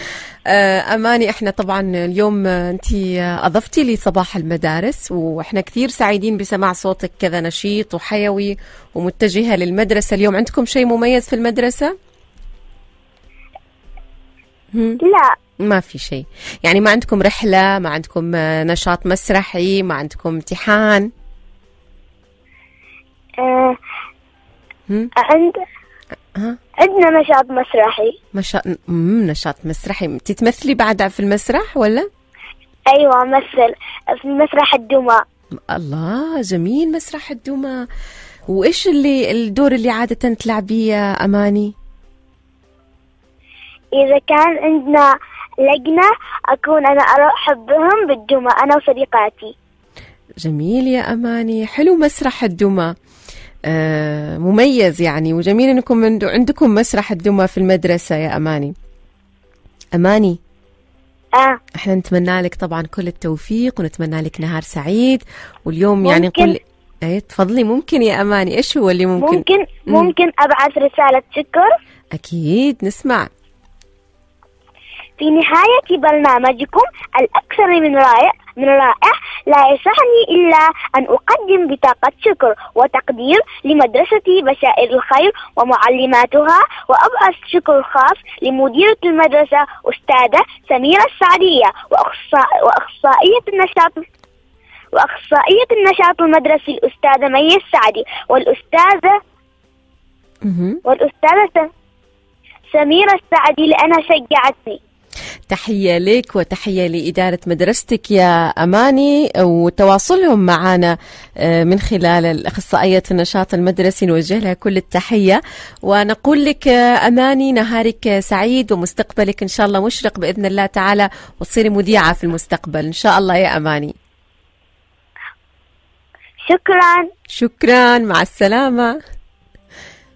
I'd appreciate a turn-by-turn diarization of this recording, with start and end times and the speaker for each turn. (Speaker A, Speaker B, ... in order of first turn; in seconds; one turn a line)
Speaker A: 0.5-11.9
Speaker A: 14.7-15.0
Speaker B: 15.0-15.3
Speaker A: 15.6-21.1
Speaker B: 23.4-23.8
Speaker B: 25.2-25.6
Speaker B: 26.8-28.1
Speaker A: 28.3-32.1
Speaker B: 32.9-35.2
Speaker A: 35.7-37.8
Speaker A: 38.5-41.7
Speaker B: 44.0-45.1
Speaker B: 45.6-49.5
Speaker A: 50.4-52.9
Speaker A: 53.7-58.7
Speaker A: 60.0-60.4
Speaker A: 61.8-70.1
Speaker B: 66.0-66.6
Speaker B: 69.2-71.7
Speaker A: 72.1-73.3
Speaker B: 75.2-94.0
Speaker B: 94.9-99.2
Speaker A: 100.4-100.8
Speaker B: 100.8-101.7
Speaker B: 102.7-104.8
Speaker A: 105.5-123.9
Speaker B: 126.5-127.1
Speaker A: 127.3-128.9